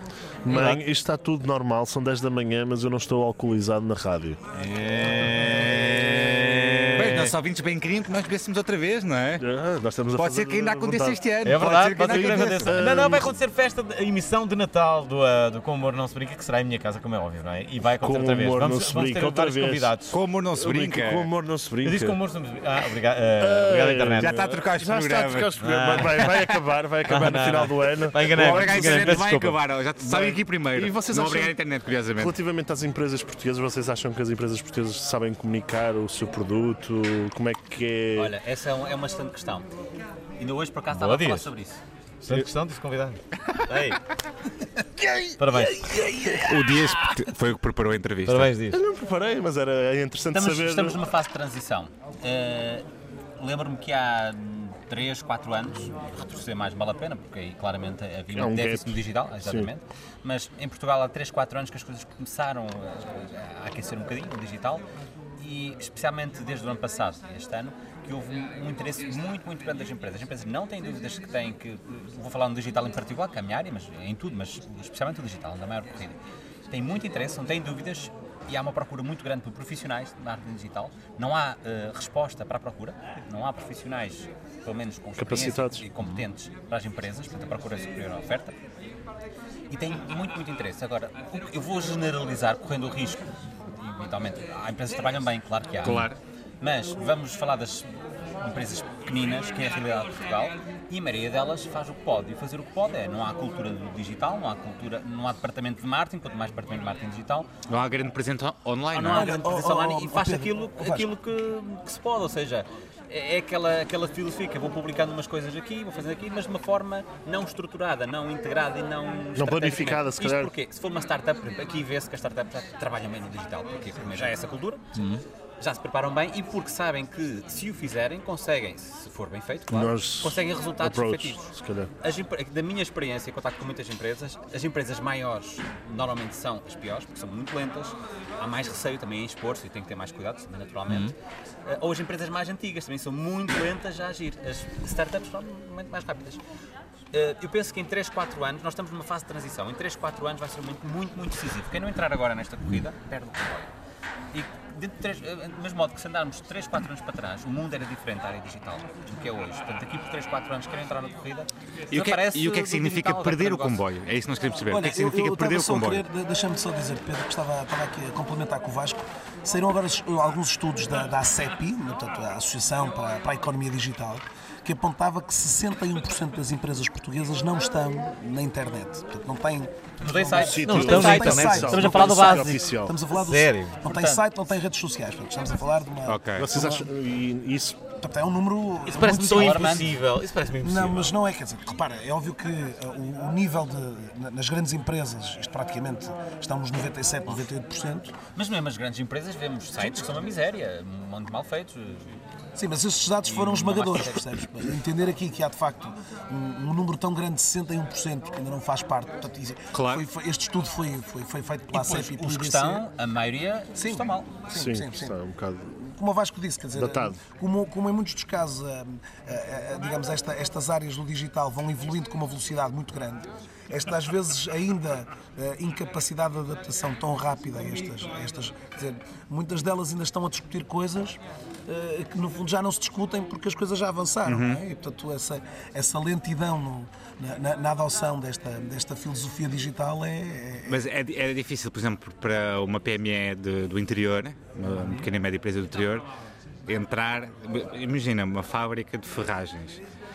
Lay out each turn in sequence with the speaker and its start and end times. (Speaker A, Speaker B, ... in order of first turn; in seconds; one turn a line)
Speaker A: 0.4-4.4
Speaker B: 0.5-0.8
Speaker B: 4.5-7.3
Speaker C: 6.9-9.4
Speaker A: 9.4-13.4
Speaker C: 10.1-13.0
Speaker B: 11.4-20.1
Speaker A: 18.0-19.9
Speaker C: 20.1-21.3
Speaker A: 20.5-22.2
Speaker B: 21.8-24.4
Speaker A: 23.4-29.1
Speaker C: 24.2-25.5
Speaker B: 25.6-26.4
Speaker B: 27.1-29.6
Speaker C: 28.2-32.4
Speaker A: 30.0-31.6
Speaker A: 32.2-38.4
Speaker D: 38.1-39.7
Speaker D: 40.4-41.8
Speaker B: 40.9-41.5
Speaker B: 42.2-44.0
Speaker E: 45.0-46.7
Speaker B: 45.4-46.0
Speaker C: 46.5-48.5
Speaker B: 48.2-48.8
Speaker A: 48.7-51.0
Speaker D: 50.3-52.9
Speaker D: 53.4-64.8
Speaker A: 58.4-59.7
Speaker D: 65.4-76.2
Speaker D: 76.7-88.5
Speaker A: 85.2-85.9
Speaker D: 89.7-97.9
Speaker C: 95.8-96.2
Speaker D: 98.4-107.5
Speaker C: 107.7-109.4
Speaker D: 108.9-124.8
Speaker E: 109.1-111.1
Speaker A: 119.3-120.5
Speaker B: 124.9-125.2
Speaker D: 125.6-141.1
Speaker A: 129.7-131.9
Speaker D: 141.7-146.4
Speaker D: 147.1-153.7
Speaker D: 154.3-163.8
Speaker C: 161.9-166.1
Speaker E: 164.7-182.2
Speaker D: 180.0-182.7
Speaker A: 180.4-182.9
Speaker B: 180.6-182.6
Speaker E: 182.8-186.9
Speaker B: 183.1-183.8
Speaker D: 183.8-184.2
Speaker C: 186.1-186.5
Speaker A: 186.4-187.8
Speaker E: 188.0-189.9
Speaker B: 188.9-191.1
Speaker D: 189.3-189.9
Speaker E: 190.6-198.2
Speaker D: 198.3-202.2
Speaker E: 202.6-212.9
Speaker D: 203.2-204.3
Speaker C: 209.7-210.1
Speaker D: 211.7-214.5
Speaker E: 213.8-215.2
Speaker A: 214.5-215.7
Speaker E: 215.7-240.8
Speaker A: 216.7-217.2
Speaker C: 234.2-234.6
Speaker C: 240.7-246.1
Speaker C: 246.7-249.8